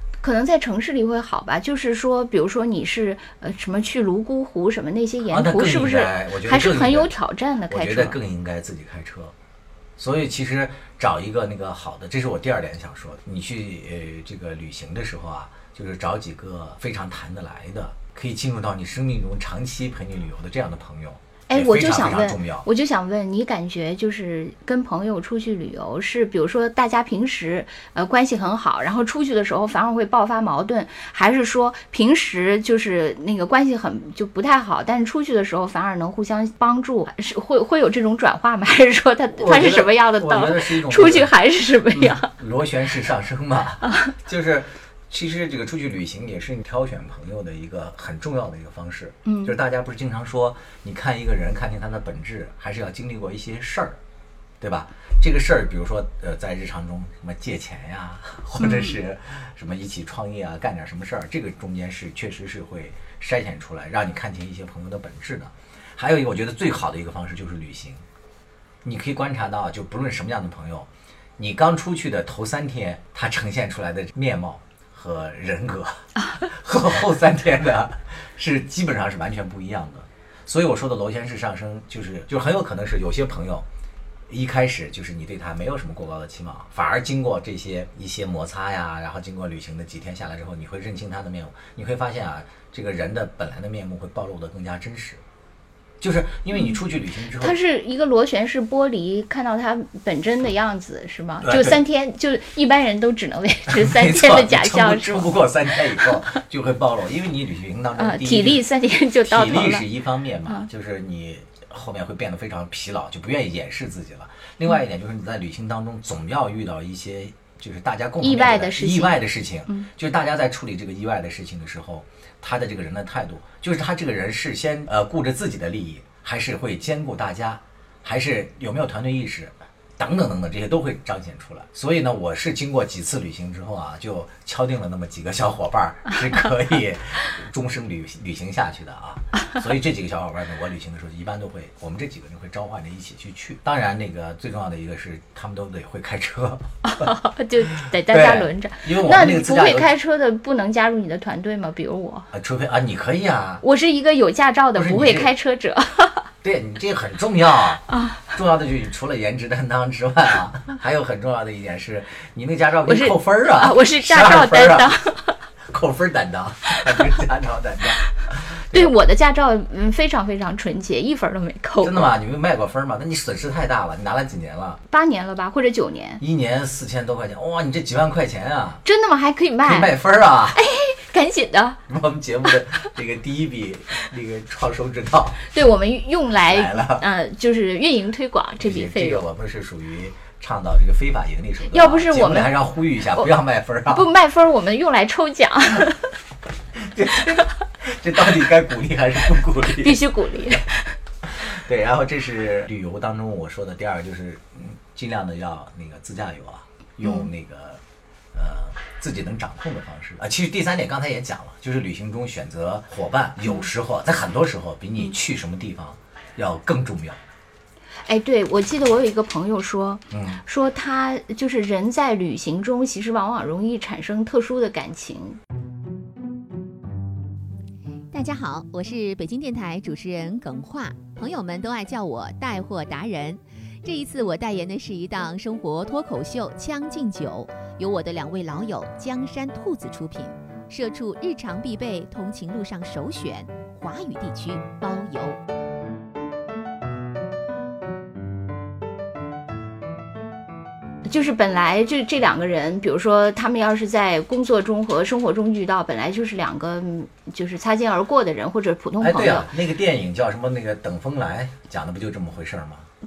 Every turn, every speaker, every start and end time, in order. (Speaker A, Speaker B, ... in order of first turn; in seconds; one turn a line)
Speaker A: 0.2-8.2
Speaker B: 5.3-7.1
Speaker B: 7.7-9.3
Speaker B: 10.0-22.7
Speaker A: 21.5-42.3
Speaker B: 39.4-41.3
Speaker B: 41.9-54.0
Speaker A: 43.9-44.1
Speaker A: 49.2-49.5
Speaker B: 54.6-68.0
Speaker A: 58.6-59.0
Speaker B: 68.8-83.7
Speaker B: 84.3-95.2
Speaker B: 96.0-97.6
Speaker A: 97.4-105.3
Speaker B: 101.4-101.8
Speaker B: 103.7-108.7
Speaker A: 108.0-109.9
Speaker B: 109.2-147.1
Speaker A: 118.2-119.9
Speaker A: 146.8-152.3
Speaker B: 148.1-149.9
Speaker B: 152.3-153.6
Speaker A: 153.6-156.2
Speaker B: 154.8-155.3
Speaker B: 156.4-164.9
Speaker A: 157.9-158.2
Speaker A: 162.9-165.3
Speaker B: 165.7-168.9
Speaker A: 168.7-172.1
Speaker B: 171.8-174.8
Speaker A: 174.9-176.2
Speaker B: 176.2-178.8
Speaker A: 178.8-179.9
Speaker B: 179.7-180.6
Speaker A: 180.5-181.8
Speaker B: 181.9-185.5
Speaker A: 185.5-189.2
Speaker B: 186.3-187.1
Speaker B: 188.6-194.1
Speaker A: 191.7-192.5
Speaker A: 193.9-196.1
Speaker B: 196.8-200.0
Speaker A: 199.8-200.9
Speaker B: 201.2-207.8
Speaker B: 208.3-217.2
Speaker A: 218.1-225.4
Speaker B: 220.1-220.4
Speaker C: 228.1-245.4
Speaker A: 251.1-259.5
Speaker B: 259.0-262.9